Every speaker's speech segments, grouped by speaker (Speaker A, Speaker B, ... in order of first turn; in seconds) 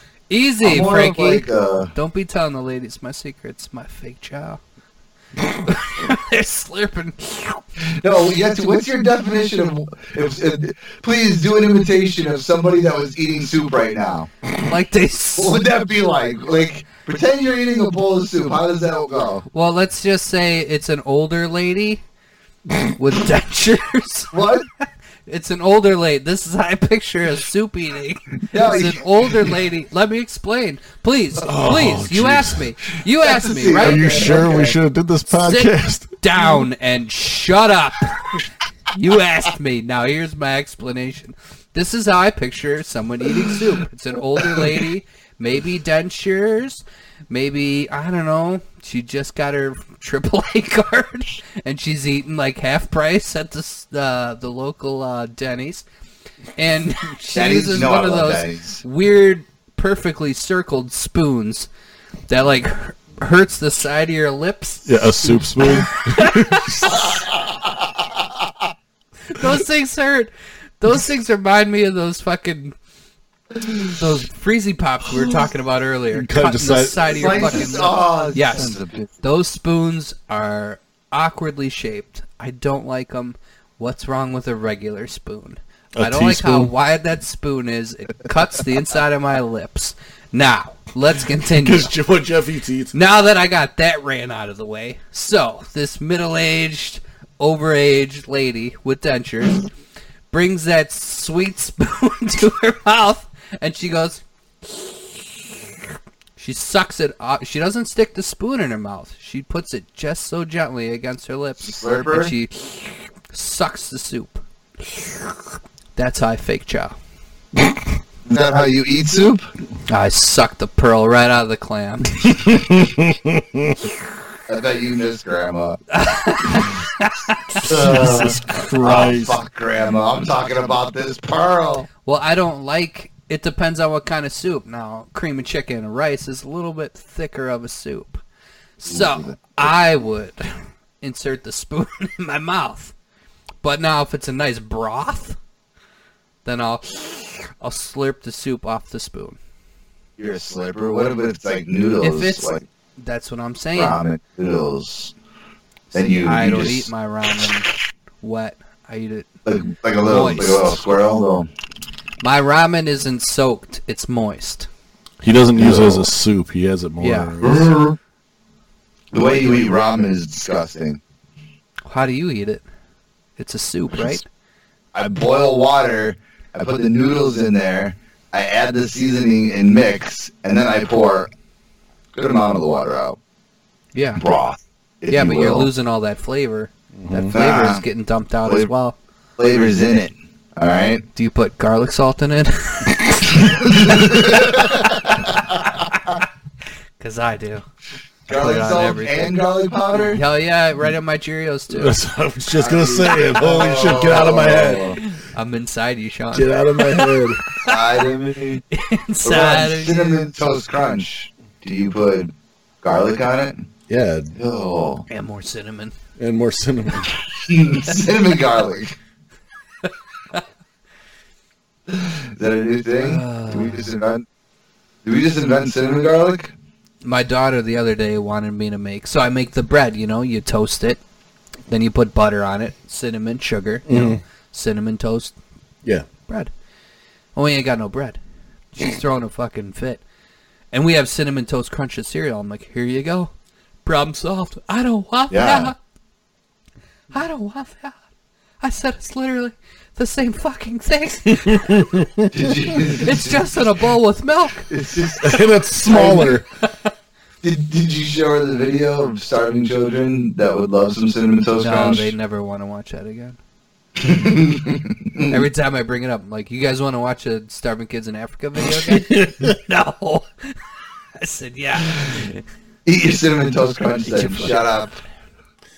Speaker A: 0.3-4.6, 5.4-7.6, 14.6-15.6, 19.5-22.0, 22.9-24.3, 25.3-34.7, 35.3-38.3, 38.9-55.8, 56.6-61.7, 62.3-67.2, 69.3-72.7, 73.9-91.9, 92.9-99.7, 100.3-105.5, 106.4-115.3, 116.0-116.9, 119.9-122.4, 125.9-128.0, 132.0-138.2, 138.8-140.5, 141.0-142.9, 143.6-145.4, 146.4-149.4, 152.0-154.0, 156.0-157.7, 158.2-159.3, 160.0-160.8, 162.2-164.7, 167.0-167.5, 171.8-172.6, 173.4-174.2, 183.9-184.2, 185.1-188.9, 191.1-194.3, 194.9-196.2, 197.0-197.6, 198.3-199.4, 200.0-202.0, 203.2-207.8, 208.7-210.2, 215.1-215.9, 219.9-220.4, 223.0-223.9, 227.0-231.0, 231.7-235.3, 237.3-238.2, 238.7-240.0, 240.7-243.3, 243.8-245.7, 247.1-248.0, 248.6-251.9, 253.0-254.7, 261.6-263.4, 265.3-270.6, 271.2-272.4, 274.1-274.7
Speaker B: 0.6-1.9, 7.8-14.3, 15.4-19.4, 24.3-24.6, 28.5-29.5, 33.2-34.8, 57.3-58.8, 67.0-68.5, 77.0-79.1, 111.6-112.3, 118.2-119.5, 124.5-125.8, 127.6-131.9, 138.8-139.7, 150.2-152.6, 153.7-155.1, 155.9-156.9, 159.4-161.5, 165.6-166.1, 167.4-167.9, 169.1-171.0, 174.9-181.3, 182.1-183.2, 184.2-185.7, 187.3-187.8, 189.4-191.0, 193.3-195.9, 198.3-200.2, 202.5-205.0, 207.6-208.6, 209.2-213.7, 214.3-215.0, 217.4-218.9, 221.9-224.2, 225.0-226.5, 245.3-245.7, 252.3-253.5, 254.7-256.4, 257.4-262.1, 264.0-265.4, 272.9-274.9
Speaker C: 31.4-32.6, 33.8-36.1, 64.8-67.0, 76.1-77.7, 85.9-86.7, 91.5-92.9, 122.2-123.9, 127.7-129.4, 165.2-167.7, 186.9-187.3, 201.7-205.0, 206.3-207.4, 213.9-214.3, 216.2-217.1, 233.9-234.2, 251.3-252.3, 255.2-256.4, 268.7-269.6